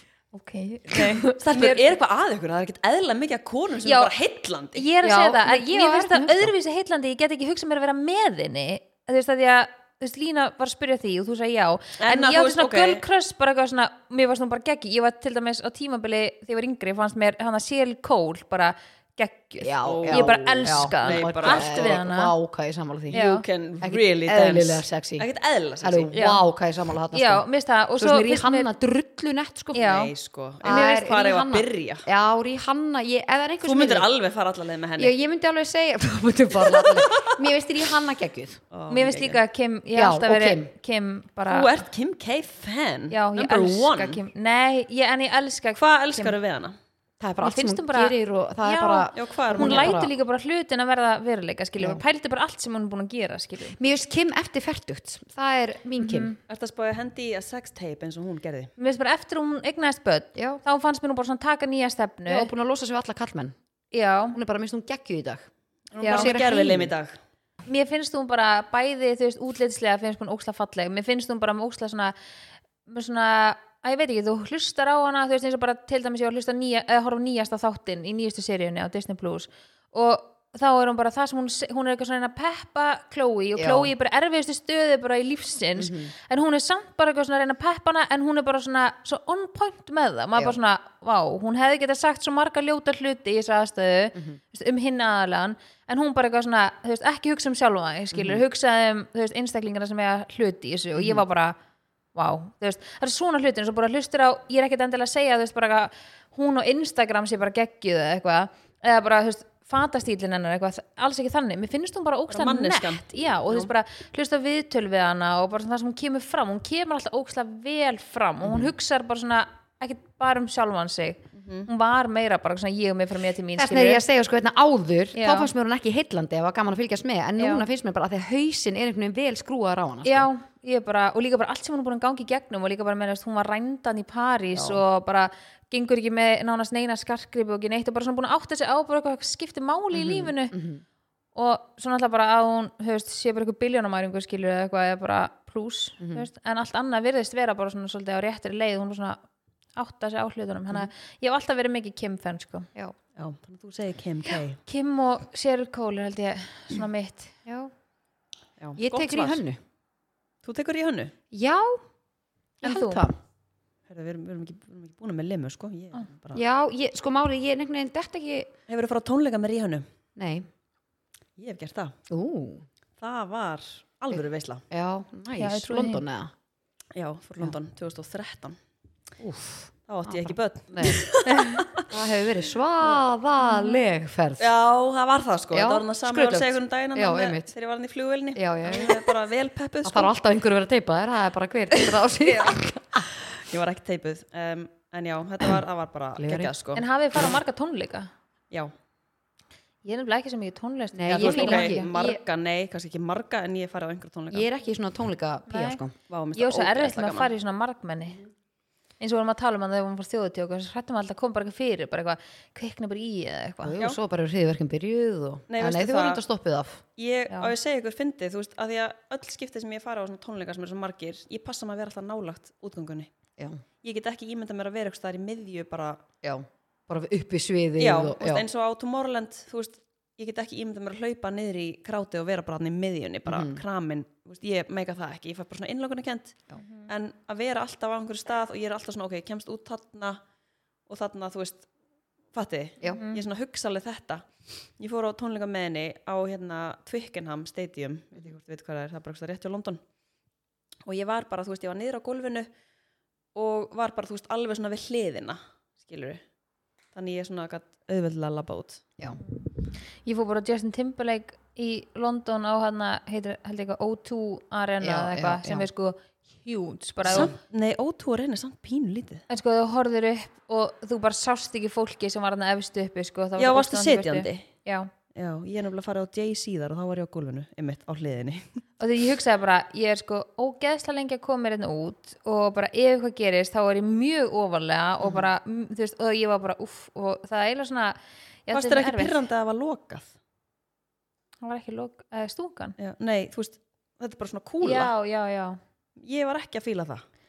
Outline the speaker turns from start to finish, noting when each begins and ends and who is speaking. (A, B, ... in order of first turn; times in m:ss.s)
0:00.3-0:01.8 A
0:00.9-0:04.9 B
0:00.9-0:01.2 C
0:03.8-0:04.1 A
0:04.8-0:22.3 A
0:05.0-0:06.5 C
0:12.0-0:13.0 B
0:19.6-0:23.2 C
0:19.8-0:22.0 B
0:23.1-0:26.1 B
0:23.1-0:23.4 A
0:23.8-0:25.3 C
0:25.8-0:27.4 C
0:26.1-0:26.4 A
0:27.1-0:28.7 A
0:28.0-0:29.9 C
0:29.7-0:30.1 A
0:29.8-0:32.0 B
0:30.6-0:34.1 C
0:30.6-0:31.0 A
0:33.6-0:35.1 B
0:35.0-0:38.6 C
0:36.6-0:37.4 B
0:38.7-0:39.4 B
0:38.9-0:41.7 A
0:40.0-0:40.7 C
0:41.5-0:44.2 B
0:43.1-0:46.4 A
0:45.8-0:46.8 B
0:47.2-0:50.1 C
0:47.4-0:53.8 A
0:49.1-0:50.0 B
0:53.8-0:56.3 C
0:56.0-0:56.4 A
0:56.5-0:58.7 B
0:58.8-1:02.5 A
1:00.4-1:00.6 C
1:02.3-1:03.6 C
1:03.9-1:04.4 A
1:04.3-1:05.5 C
1:05.9-1:07.2 B
1:06.0-1:06.3 A
1:06.1-1:06.9 C
1:07.6-1:12.1 A
1:12.9-1:41.6 A
1:23.6-1:23.9 C
1:25.8-1:26.1 C
1:34.1-1:34.4 C
1:38.1-1:38.4 C
1:41.0-1:41.2 C
1:42.1-2:04.0 A
1:52.3-1:53.7 B
1:58.4-1:58.7 C
2:01.4-2:01.7 B
2:03.6-2:10.3 C
2:05.1-2:05.5 A
2:07.4-2:07.6 A
2:10.0-2:20.6 A
2:19.9-2:20.8 C
2:21.4-2:29.2 A
2:26.0-2:26.2 C
2:29.8-2:32.7 A
2:33.2-2:34.6 B
2:34.6-2:37.4 A
2:37.5-2:37.7 C
2:38.6-2:39.4 B
2:38.8-2:39.6 C
2:40.4-2:41.1 B
2:41.3-2:41.8 C
2:42.6-2:43.0 A
2:42.6-2:43.2 C
2:43.9-2:46.4 B
2:46.3-2:48.5 C
2:48.7-2:49.8 B
2:50.2-2:50.5 C
2:51.4-2:52.0 B
2:52.1-2:52.6 C
2:53.0-2:54.6 B
2:54.7-2:56.3 C
2:55.4-2:56.0 A
2:57.0-2:58.6 B
2:59.2-3:01.0 C
2:59.9-3:01.9 B
3:01.3-3:01.6 A
3:01.8-3:04.5 C
3:03.4-3:03.8 A
3:04.4-3:10.1 B
3:05.5-3:07.5 C
3:08.3-3:09.1 C
3:09.8-3:13.0 C
3:12.3-3:12.5 B
3:13.3-3:16.8 B
3:16.2-3:16.5 C
3:16.8-3:18.1 A
3:19.8-3:21.9 A
3:20.9-3:22.2 C
3:21.2-3:24.5 B
3:24.3-3:26.0 C
3:25.5-3:25.8 A
3:26.1-3:27.3 B
3:26.4-3:28.2 A
3:29.0-3:33.8 A
3:33.6-3:36.8 C
3:35.5-3:36.2 B
3:37.0-3:43.1 B
3:43.4-3:43.6 C
3:43.8-3:46.0 B
3:46.2-3:48.4 C
3:47.8-4:00.2 B
3:53.3-3:53.6 C
3:56.6-3:56.9 A
4:00.9-4:01.7 B
4:02.3-4:04.2 B
4:02.9-4:03.2 A
4:04.8-4:09.8 B
4:10.9-4:12.5 B
4:13.3-4:16.2 B
4:16.9-4:18.8 B
4:19.2-4:27.3 A
4:24.8-4:25.7 C
4:27.0-4:29.2 B
4:29.3-4:34.9 A
4:33.4-4:34.5 B
4:35.2-4:38.6 B
4:38.8-4:49.2 A
4:48.5-4:50.1 B
4:51.4-4:52.8 A
4:52.8-4:54.9 B
4:54.6-4:55.6 A
4:56.0-4:57.0 B